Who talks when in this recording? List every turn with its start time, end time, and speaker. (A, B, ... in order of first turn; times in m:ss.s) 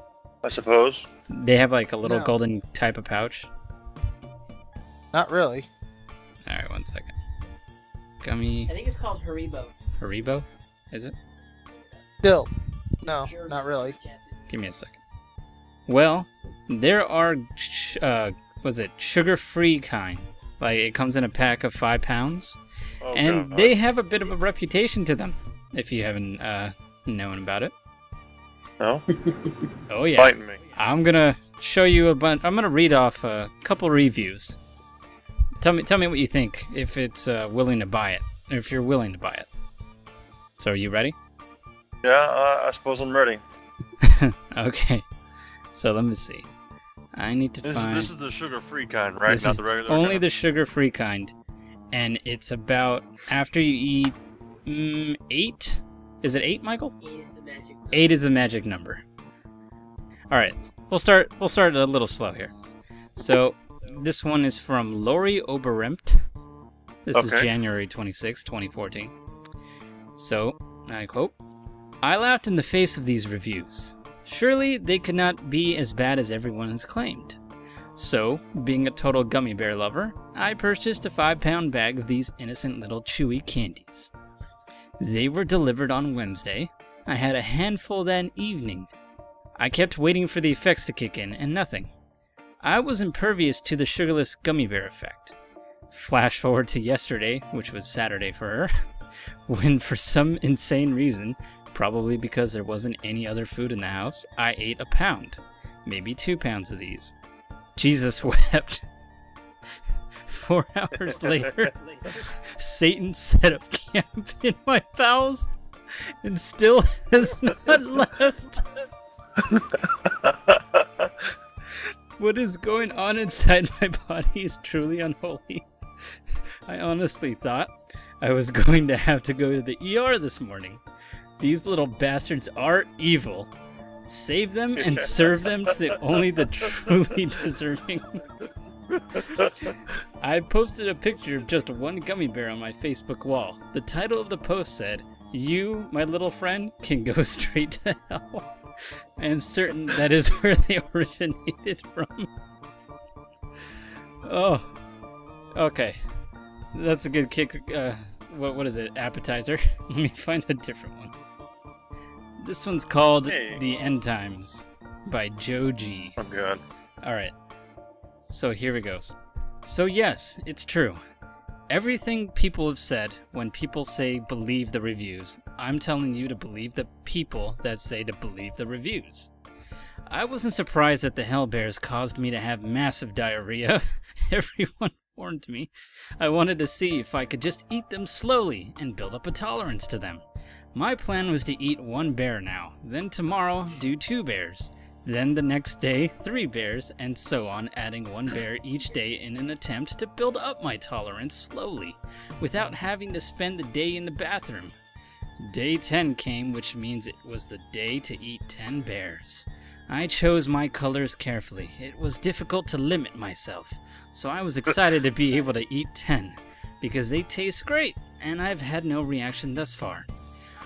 0:00.4-0:01.1 A
0:01.3-0:03.5 B
0:02.0-0:02.3 C
0:05.1-0:05.7 C
0:06.4-0:07.1 B
0:08.2-0:08.7 B
0:08.7-0:09.7 D
0:10.0-0:11.1 B
0:12.2-0:12.5 C
0:13.0-0:13.9 C
0:13.0-0:14.4 D
0:14.5-0:15.0 B
0:15.9-0:22.6 B
0:23.0-0:23.8 A
0:23.1-0:27.7 B
0:29.9-0:34.6 B
0:30.1-0:30.6 A
0:35.6-0:39.5 B
0:40.6-0:41.1 B
0:42.0-0:43.4 A
0:44.0-0:45.0 B
0:45.7-0:46.5 B
0:47.1-0:48.1 B
0:47.6-0:50.2 A
0:49.2-0:51.3 B
0:51.9-0:54.2 B
0:54.7-0:57.0 B
0:57.0-0:58.2 D
0:57.9-0:59.0 B
1:00.3-1:02.5 B
1:03.2-1:06.2 B
1:07.1-1:09.1 B
1:07.1-1:07.5 A
1:10.2-1:11.4 B
1:12.0-1:17.4 B
1:18.0-1:24.1 B
1:25.0-1:28.9 B
1:29.6-1:31.9 B
1:32.6-1:35.3 B
1:35.9-1:38.7 B
1:39.5-1:47.1 B
1:47.8-1:48.8 B
1:50.3-1:55.5 B
1:56.2-1:58.7 B
2:00.2-2:00.6 A
2:02.2-2:05.6 B
2:06.7-2:10.8 B
2:11.4-2:13.5 B
2:14.1-2:18.2 B
2:14.8-2:15.4 A
2:18.9-2:19.5 A
2:20.2-2:28.5 B
2:29.2-2:32.3 B
2:34.2-2:34.7 B
2:35.6-2:36.0 B
2:36.7-2:41.1 B
2:42.4-2:46.2 B
2:43.2-2:43.6 A
2:46.2-2:46.6 A
2:47.0-2:47.3 B
2:48.3-2:51.0 B
2:51.7-2:59.3 B
3:00.1-3:10.2 B
3:10.7-3:24.7 B
3:25.4-3:40.1 B